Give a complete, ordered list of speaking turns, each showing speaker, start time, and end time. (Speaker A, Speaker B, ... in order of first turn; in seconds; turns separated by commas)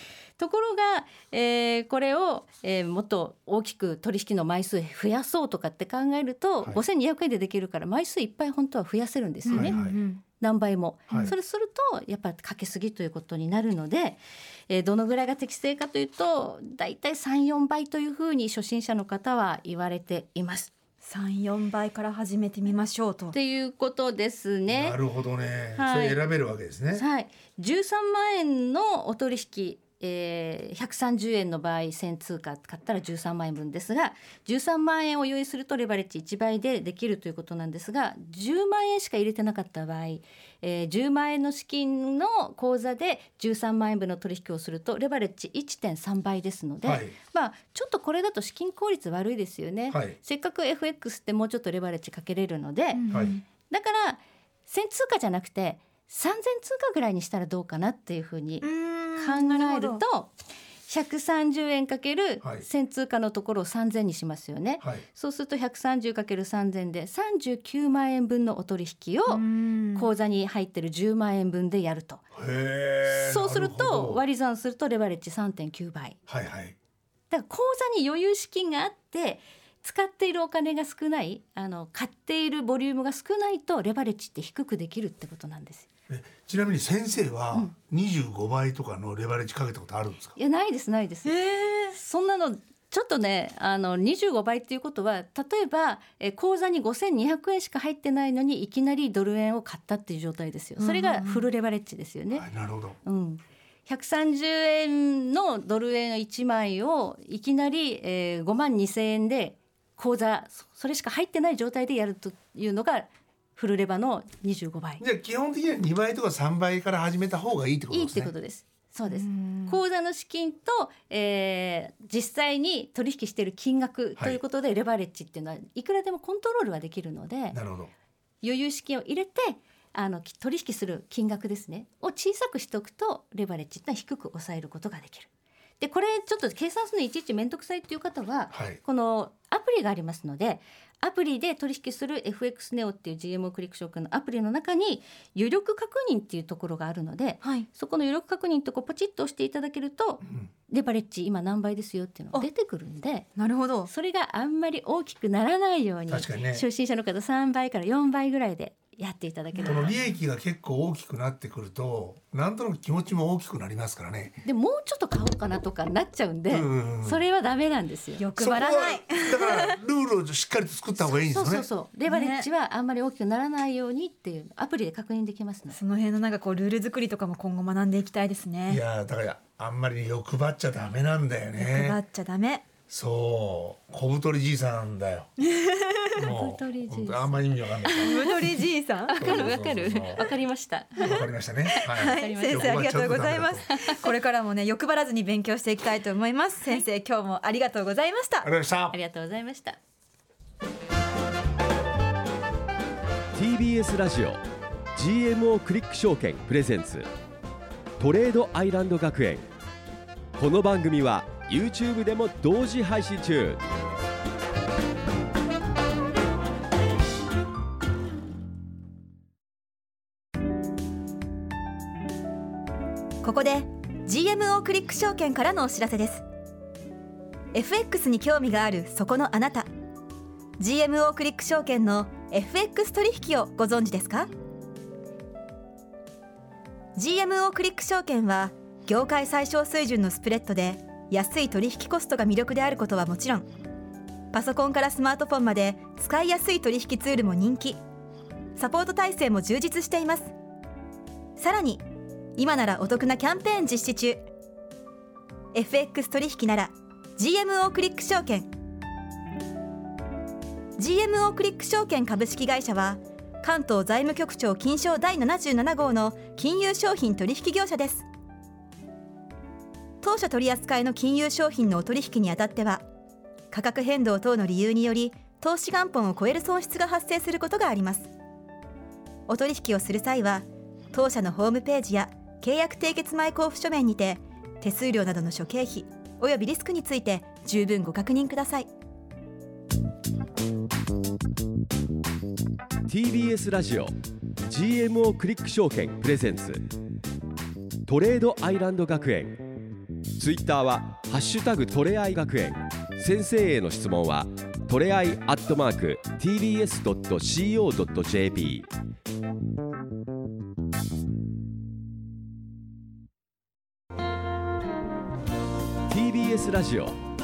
Speaker A: 0.4-20.7, Speaker B: 9.4-10.2, Speaker C: 9.5-10.0, Speaker B: 21.0-23.4, Speaker A: 23.3-25.0, Speaker C: 24.7-27.0, Speaker A: 25.8-26.2, Speaker A: 26.9-53.1, Speaker C: 46.8-47.1, Speaker C: 49.9-50.2, Speaker B: 52.9-53.4, Speaker C: 53.1-53.4, Speaker A: 53.7-60.3, Speaker B: 58.6-60.0, Speaker A: 60.9-72.2, Speaker B: 69.3-70.1, Speaker C: 72.3-74.2, Speaker A: 73.1-76.2, Speaker C: 76.3-76.8, Speaker A: 77.3-85.9, Speaker C: 86.1-90.4, Speaker A: 90.4-91.4, Speaker B: 91.2-92.0, Speaker A: 91.9-102.5, Speaker B: 100.8-101.5, Speaker C: 102.3-103.0, Speaker A: 103.0-115.0, Speaker C: 115.0-118.3, Speaker A: 117.9-127.6, Speaker B: 119.1-119.8, Speaker C: 127.5-127.9, Speaker A: 128.4-135.3, Speaker A: 135.8-153.3, Speaker C: 138.5-138.8, Speaker C: 150.2-150.5, Speaker B: 153.4-153.9, Speaker A: 153.9-160.0, Speaker C: 156.1-156.7, Speaker B: 159.5-160.1, Speaker C: 159.7-164.4, Speaker A: 164.4-168.2, Speaker C: 166.5-167.2, Speaker B: 168.2-169.8, Speaker C: 168.4-171.7, Speaker A: 171.1-175.8, Speaker B: 172.1-172.5, Speaker B: 175.7-178.8, Speaker C: 178.7-182.0, Speaker B: 181.6-182.7, Speaker C: 182.9-185.3, Speaker B: 185.4-186.2, Speaker C: 186.2-188.4, Speaker A: 186.2-188.4, Speaker B: 188.0-189.6, Speaker A: 189.1-191.2, Speaker C: 189.2-190.3, Speaker C: 191.0-193.7, Speaker B: 191.0-198.5, Speaker A: 191.9-193.0, Speaker A: 193.7-194.0, Speaker C: 198.4-199.0, Speaker A: 198.9-199.8, Speaker D: 203.3-204.4, Speaker D: 204.9-207.1, Speaker D: 208.0-209.5, Speaker D: 210.4-213.6, Speaker B: 223.2-226.2, Speaker B: 227.5-229.7, Speaker B: 230.6-234.3, Speaker B: 236.9-243.5, Speaker B: 244.3-247.8, Speaker B: 248.6-250.3, Speaker B: 251.4-254.2, Speaker B: 255.5-258.5, Speaker B: 260.8-268.1, Speaker B: 270.0-272.9, Speaker B: 273.5-278.1, Speaker B: 279.3-288.7, Speaker D: 292.9-293.9, Speaker D: 294.4-296.6, Speaker D: 297.9-299.4, Speaker D: 300.2-308.7, Speaker D: 315.9-317.0